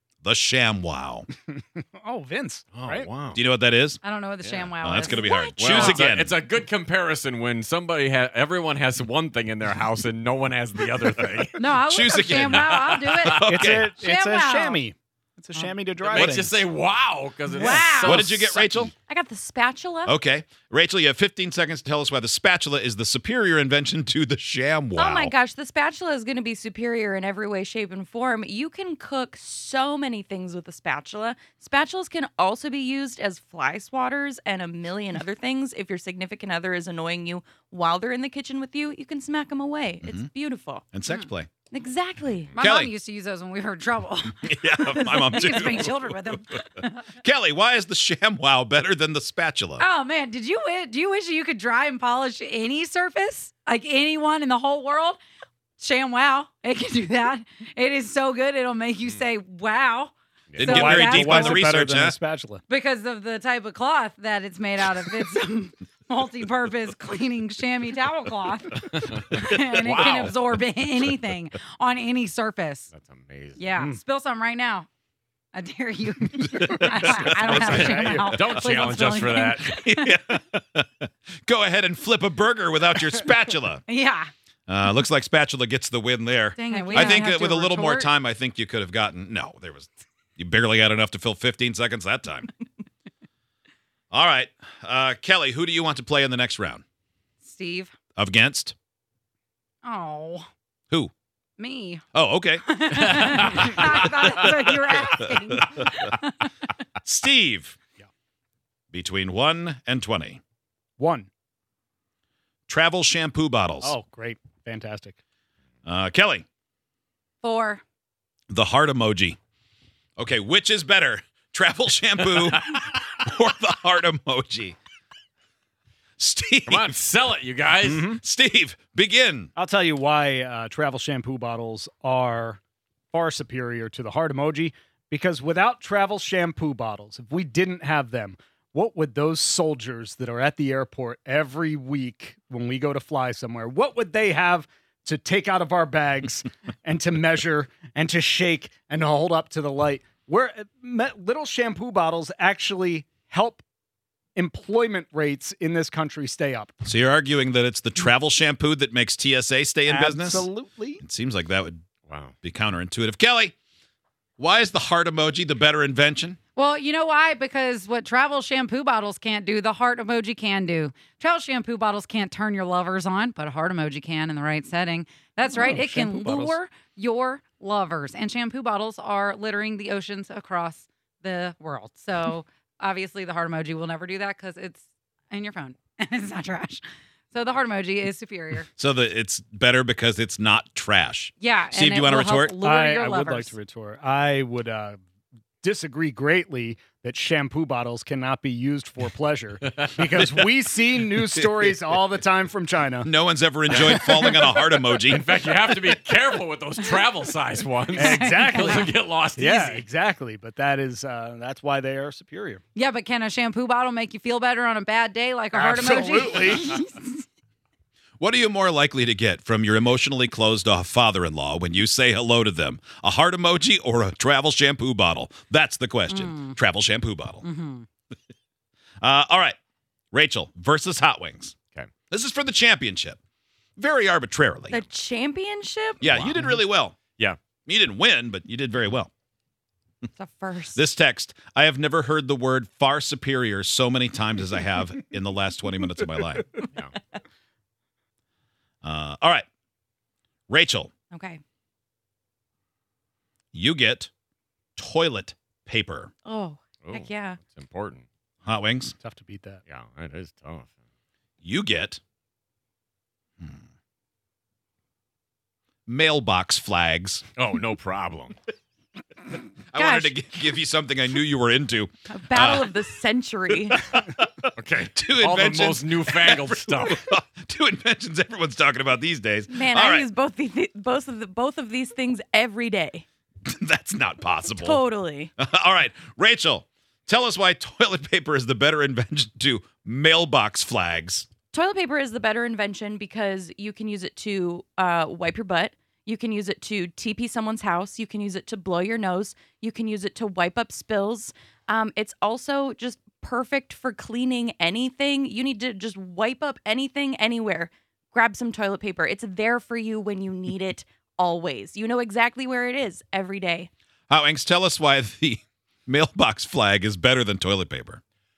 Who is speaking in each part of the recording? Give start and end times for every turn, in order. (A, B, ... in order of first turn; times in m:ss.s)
0:00.2-0:01.3 A
0:01.5-0:03.1 B
0:02.7-0:03.4 C
0:03.3-0:04.0 A
0:04.0-0:05.3 D
0:04.4-0:04.7 C
0:04.8-0:06.3 A
0:05.0-0:06.0 E
0:05.6-0:11.6 C
0:11.6-0:14.8 D
0:11.7-0:13.9 A
0:12.4-0:13.3 C
0:13.4-0:16.6 B
0:16.0-0:18.9 C
0:17.5-0:18.3 D
0:18.0-0:18.9 A
0:19.1-0:20.1 E
0:20.0-0:25.3 A
0:25.0-0:40.8 E
0:40.9-0:41.5 A
0:41.7-0:42.6 E
0:42.5-0:47.1 D
0:42.6-0:42.9 A
0:44.5-0:46.6 A
0:47.2-0:49.8 A
0:49.8-0:55.2 D
0:55.8-1:01.6 D
1:00.5-1:00.8 C
1:00.6-1:02.2 A
1:00.7-1:02.6 B
1:02.7-1:12.9 D
1:09.0-1:10.4 C
1:12.9-1:13.6 C
1:13.6-1:14.9 D
1:15.5-1:20.2 D
1:16.6-1:23.8 A
1:17.1-1:18.3 B
1:17.5-1:19.7 C
1:23.9-1:24.3 D
1:24.7-1:32.5 A
1:26.6-1:27.2 E
1:26.6-1:28.1 D
1:34.1-1:36.8 A
1:37.4-1:37.9 D
1:38.2-1:38.7 A
1:39.8-1:40.5 D
1:41.6-1:42.0 D
1:42.1-1:45.9 A
1:42.6-1:46.5 D
1:47.0-1:47.8 A
1:48.9-1:50.4 A
1:51.0-1:51.3 B
1:52.7-1:54.0 A
1:53.8-1:55.2 B
1:55.8-1:56.4 A
1:57.4-1:57.8 D
1:58.5-1:59.4 A
2:00.2-2:04.8 A
2:06.2-2:07.0 A
2:06.7-2:08.1 C
2:07.8-2:09.5 A
2:09.6-2:12.6 B
2:13.1-2:33.6 B
2:34.4-2:36.7 B
2:36.8-2:40.5 A
2:39.9-2:41.0 B
2:41.0-2:41.8 A
2:42.1-2:42.3 C
2:42.4-2:43.5 A
2:44.4-2:46.4 A
2:46.6-3:08.7 D
2:55.5-2:56.6 B
3:08.8-3:12.6 A
3:11.4-3:13.5 D
3:12.6-3:15.0 B
3:15.6-3:23.1 B
3:19.7-3:20.4 C
3:23.0-3:25.3 A
3:23.7-3:24.3 B
3:25.0-3:29.8 C
3:28.0-3:32.6 B
3:28.0-3:28.9 D
3:32.8-3:37.2 D
3:35.5-3:36.7 B
3:38.2-3:47.4 A
3:46.1-3:46.6 D
3:47.4-3:47.9 D
3:49.0-3:49.6 A
3:50.1-3:51.6 A
3:52.1-3:53.2 A
3:53.8-3:54.8 A
3:54.7-3:56.1 E
3:56.0-3:57.0 A
3:56.1-3:56.5 C
3:57.7-3:59.1 A
4:00.2-4:00.8 E
4:00.8-4:06.6 A
4:08.8-4:09.4 A
4:10.5-4:10.9 A
4:11.1-4:11.4 E
4:13.5-4:14.1 A
4:14.8-4:16.1 A
4:16.2-4:17.4 E
4:16.8-4:18.0 C
4:18.4-4:18.9 A
4:19.0-4:19.6 B
4:19.7-4:20.7 C
4:21.4-4:22.0 A
4:25.9-4:27.2 A
4:27.4-4:28.4 C
4:29.7-4:32.8 A
4:29.8-4:30.1 E
4:32.1-4:33.9 E
4:33.9-4:34.3 A
4:34.6-4:37.0 C
4:34.9-4:40.1 A
4:39.5-4:43.0 E
4:43.5-4:44.8 A
4:44.5-4:45.3 E
4:45.4-4:51.3 A
4:51.5-5:13.7 E
5:14.1-5:18.0 A